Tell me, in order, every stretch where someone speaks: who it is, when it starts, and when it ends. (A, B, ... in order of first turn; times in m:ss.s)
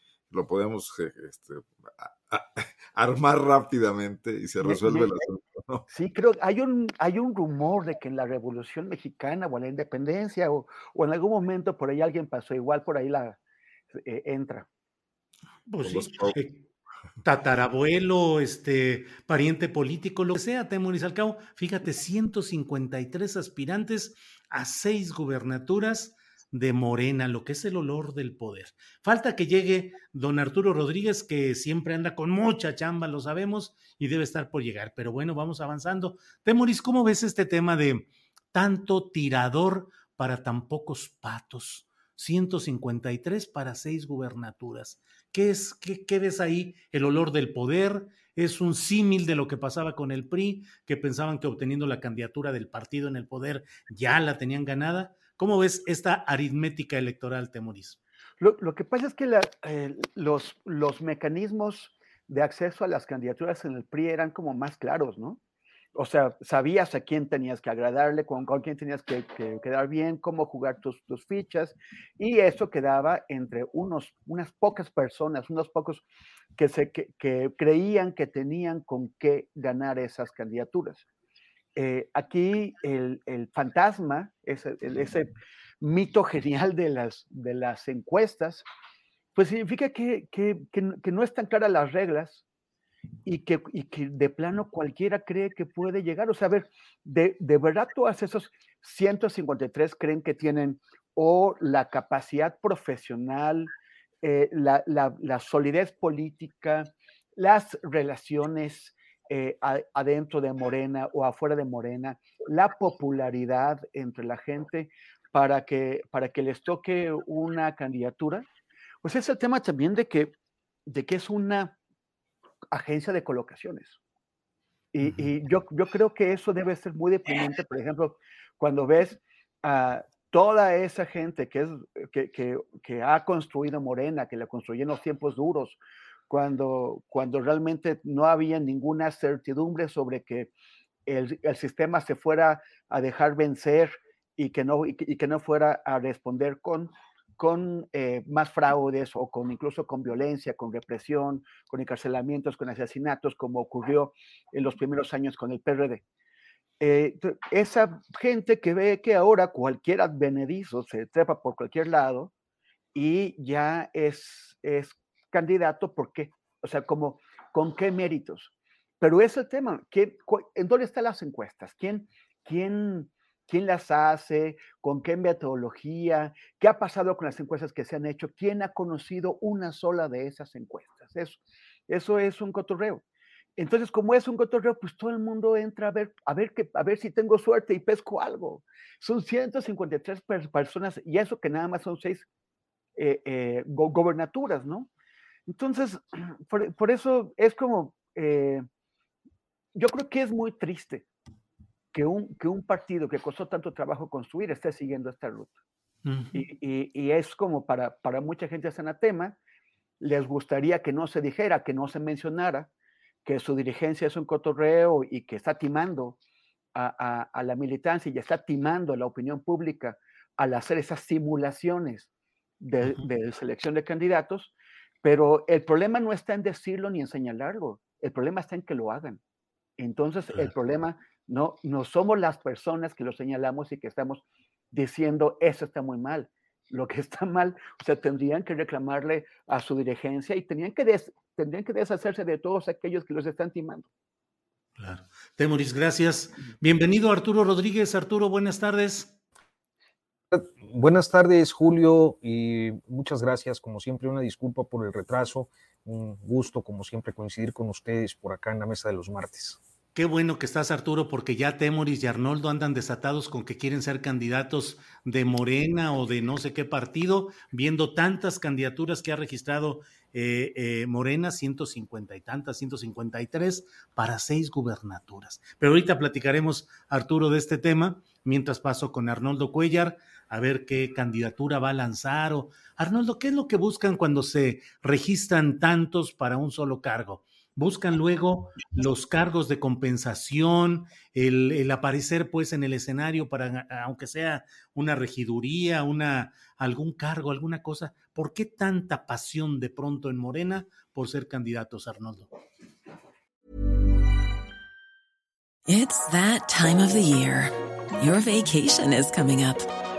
0:00.3-0:05.9 A
0:04.6-0:05.1 B
0:05.9-0:13.4 B
0:13.9-0:14.7 B
0:15.7-0:16.6 C
0:15.8-0:16.4 A
0:17.2-0:58.0 C
0:58.4-1:05.4 B
1:06.0-1:16.0 B
1:16.6-1:21.0 B
1:21.8-1:25.3 B
1:25.8-1:28.6 B
1:29.4-1:32.4 B
1:33.2-1:43.7 B
1:44.2-1:58.4 B
1:59.0-2:00.3 B
2:00.9-2:01.8 B
2:02.7-2:04.0 B
2:04.9-2:15.8 B
2:05.0-2:05.3 C
2:16.3-2:20.5 B
2:21.1-2:36.0 B
2:36.8-2:42.3 B
2:42.9-3:03.0 B
3:03.6-3:12.3 B
3:13.0-3:14.9 B
3:15.5-3:18.7 B
3:19.8-3:21.1 B
3:21.9-3:25.5 B
3:26.0-3:26.4 C
3:26.3-3:29.4 B
3:30.0-3:32.7 B
3:33.2-3:36.2 B
3:36.8-3:42.1 B
3:42.6-3:44.5 B
3:45.0-3:49.2 B
3:49.8-4:03.9 B
4:04.8-4:09.2 C
4:10.3-4:19.6 D
4:20.0-5:02.3 C
5:05.7-5:09.7 E